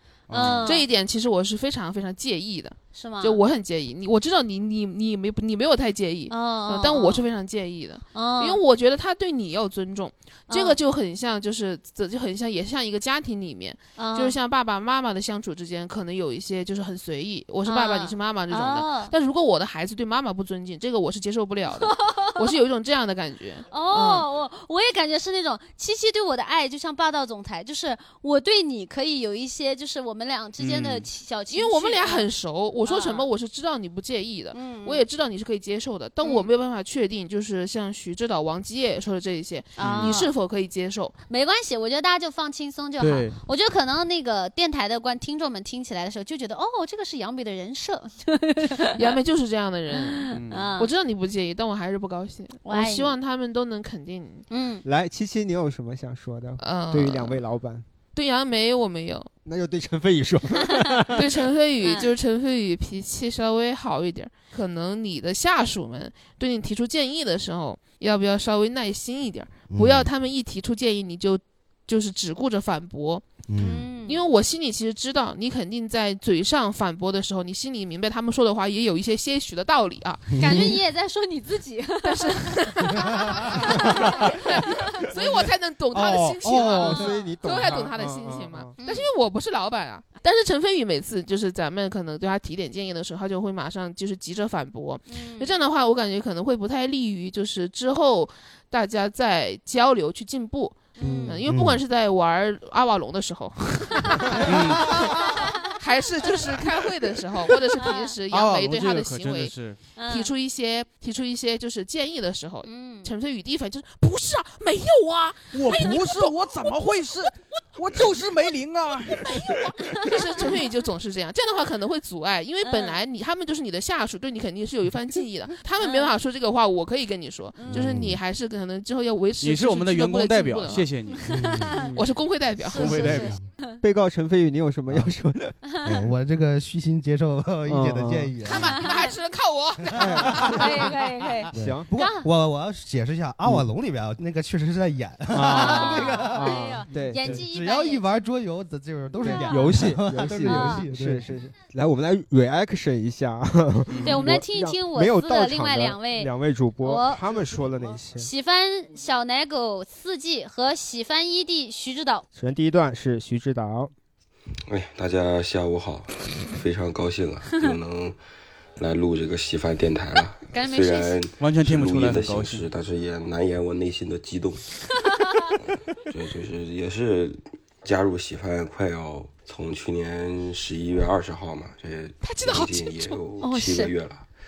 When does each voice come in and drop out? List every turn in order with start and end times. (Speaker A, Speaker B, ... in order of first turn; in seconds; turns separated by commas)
Speaker A: 0.3-0.7, Speaker B: 0.3-0.9, Speaker C: 0.4-24.2, Speaker B: 2.9-3.4, Speaker B: 6.3-7.2, Speaker B: 8.1-8.6, Speaker B: 10.5-10.8, Speaker B: 14.0-14.3, Speaker B: 17.6-19.1, Speaker B: 21.8-22.4, Speaker B: 23.7-32.3, Speaker A: 30.6-31.1, Speaker C: 31.5-41.1, Speaker B: 32.9-33.3, Speaker B: 34.5-35.0, Speaker B: 36.2-36.5, Speaker B: 39.8-40.3, Speaker A: 39.8-40.2, Speaker B: 41.3-49.0, Speaker A: 43.0-43.4, Speaker C: 48.9-54.4, Speaker B: 49.9-50.9, Speaker A: 50.3-50.7, Speaker B: 52.6-53.1, Speaker B: 54.5-54.8, Speaker D: 54.8-57.9, Speaker C: 56.6-57.4, Speaker C: 58.1-59.3, Speaker D: 59.4-61.5, Speaker C: 61.1-73.3, Speaker B: 61.8-62.1, Speaker E: 69.7-70.1, Speaker E: 73.5-73.9, Speaker B: 73.6-74.2, Speaker C: 74.0-80.6, Speaker E: 80.3-80.8, Speaker B: 80.4-85.0, Speaker C: 82.0-109.5, Speaker E: 83.1-83.4, Speaker E: 86.0-86.8, Speaker D: 86.4-88.7, Speaker B: 86.7-87.1, Speaker B: 88.8-89.0, Speaker B: 95.1-95.5, Speaker B: 101.0-101.4, Speaker D: 101.0-101.4, Speaker E: 101.5-101.8, Speaker A: 104.4-105.0, Speaker B: 105.1-105.7, Speaker B: 107.8-108.1, Speaker A: 108.3-109.8, Speaker B: 110.0-110.3, Speaker C: 110.1-116.3, Speaker B: 112.6-113.1, Speaker A: 115.5-119.7, Speaker C: 119.3-130.9, Speaker B: 119.8-120.1, Speaker B: 122.6-123.0, Speaker B: 125.8-126.1, Speaker B: 127.6-128.0, Speaker E: 127.7-128.2, Speaker A: 129.4-131.4, Speaker E: 131.2-131.9, Speaker B: 131.4-131.9, Speaker D: 131.8-132.1, Speaker C: 131.9-133.2, Speaker B: 132.6-133.8, Speaker A: 132.7-133.3, Speaker E: 133.1-133.4, Speaker D: 133.8-135.6, Speaker E: 135.8-138.9, Speaker D: 137.7-138.4, Speaker C: 138.4-140.9, Speaker B: 138.6-138.9, Speaker D: 139.9-140.9, Speaker B: 140.4-142.3, Speaker E: 141.5-151.3, Speaker D: 141.5-141.9, Speaker D: 145.3-147.4, Speaker B: 145.5-148.1, Speaker D: 149.2-158.3, Speaker B: 149.2-149.7, Speaker B: 150.4-150.8, Speaker A: 153.9-154.2, Speaker B: 154.0-156.3, Speaker B: 156.8-157.2, Speaker B: 158.2-162.2, Speaker D: 162.3-163.9, Speaker F: 164.7-168.2, Speaker F: 168.8-174.7, Speaker B: 170.5-171.2, Speaker A: 171.4-172.7, Speaker B: 175.1-175.5, Speaker F: 175.7-184.2, Speaker C: 182.2-183.2, Speaker B: 183.4-183.9